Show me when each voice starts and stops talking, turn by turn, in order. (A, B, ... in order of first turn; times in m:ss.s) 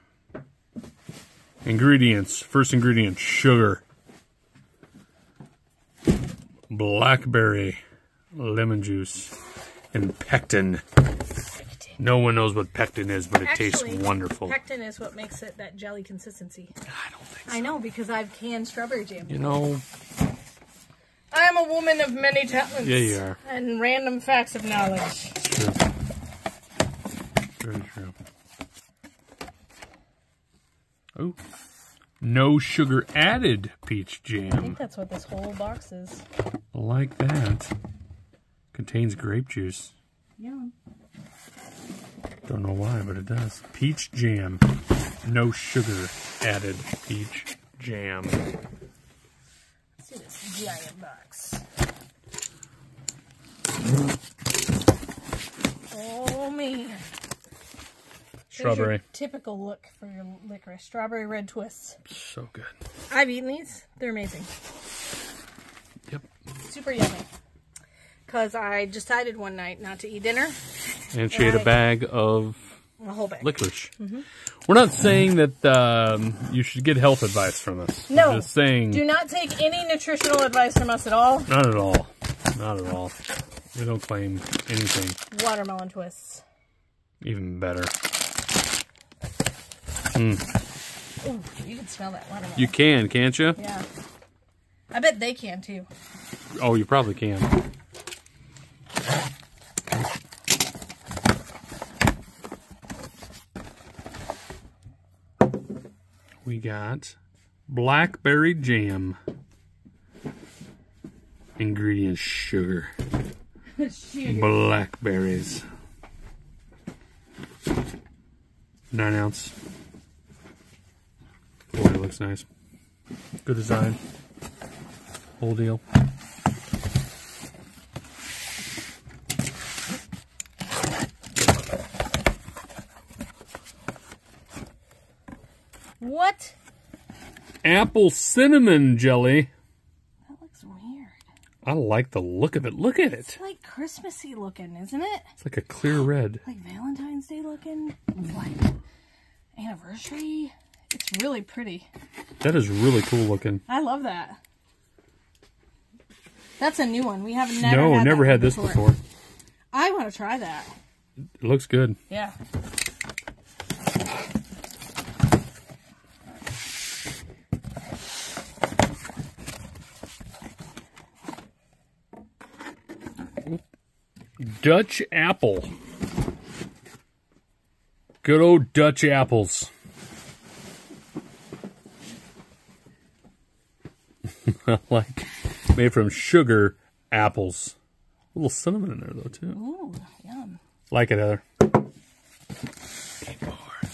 0:01.6-0:03.8 A
0:06.7-0:07.8 A
0:08.3-0:09.3 A
0:09.9-0:10.8 A
0:12.0-0:14.6 A
0:13.4-0:16.7 B
0:16.9-0:17.7 A
0:17.5-0:19.6 B
0:19.3-0:19.8 A
0:21.3-0:25.4 B
0:22.8-0:23.4 A
0:25.4-0:25.8 A
0:27.6-0:28.1 A
0:32.2-0:34.8 A
0:34.6-0:36.2 B
0:36.7-0:37.7 A
0:38.7-0:39.9 A
0:40.4-0:40.7 B
0:42.4-0:44.6 A
0:45.2-0:48.4 A
0:50.0-0:51.6 B
0:55.9-0:57.0 B
0:58.5-0:59.0 A
0:58.5-1:02.0 B
1:02.0-1:02.7 A
1:03.1-1:04.5 B
1:06.6-1:07.3 B
1:08.3-1:10.6 B
1:11.1-1:12.7 A
1:11.3-1:11.8 B
1:13.0-1:14.2 B
1:13.4-1:13.9 A
1:14.7-1:19.1 A
1:18.1-1:21.5 B
1:21.5-1:23.1 A
1:23.7-1:25.2 A
1:25.3-1:26.4 B
1:27.2-1:27.9 A
1:30.1-1:30.4 A
1:31.2-1:32.8 B
1:32.6-1:33.6 A
1:33.6-1:33.8 B
1:34.9-1:35.9 B
1:36.5-1:37.6 A
1:46.4-1:47.2 A
1:47.7-1:49.2 A
1:51.6-1:52.9 A
1:53.8-1:54.6 B
1:54.2-1:55.6 A
1:58.9-1:59.5 A
2:01.7-2:02.4 A
2:03.4-2:04.0 A
2:05.4-2:05.8 A
2:16.0-2:16.5 B
2:17.6-2:19.5 A
2:20.3-2:21.2 B
2:21.6-2:23.4 A
2:23.2-2:25.3 B
2:25.4-2:26.4 A
2:26.4-2:28.7 B
2:29.5-2:31.9 B
2:32.4-2:33.6 A
2:33.7-2:34.4 B
2:36.6-2:38.8 B
2:37.6-2:39.0 A
2:39.7-2:40.7 B
2:41.4-2:42.0 A
2:42.1-2:42.3 B
2:54.4-2:55.7 A
2:58.2-2:59.7 A
3:04.3-3:07.8 A
3:08.3-3:09.6 A
3:09.5-3:10.6 B
3:10.9-3:11.4 A
3:13.2-3:13.8 A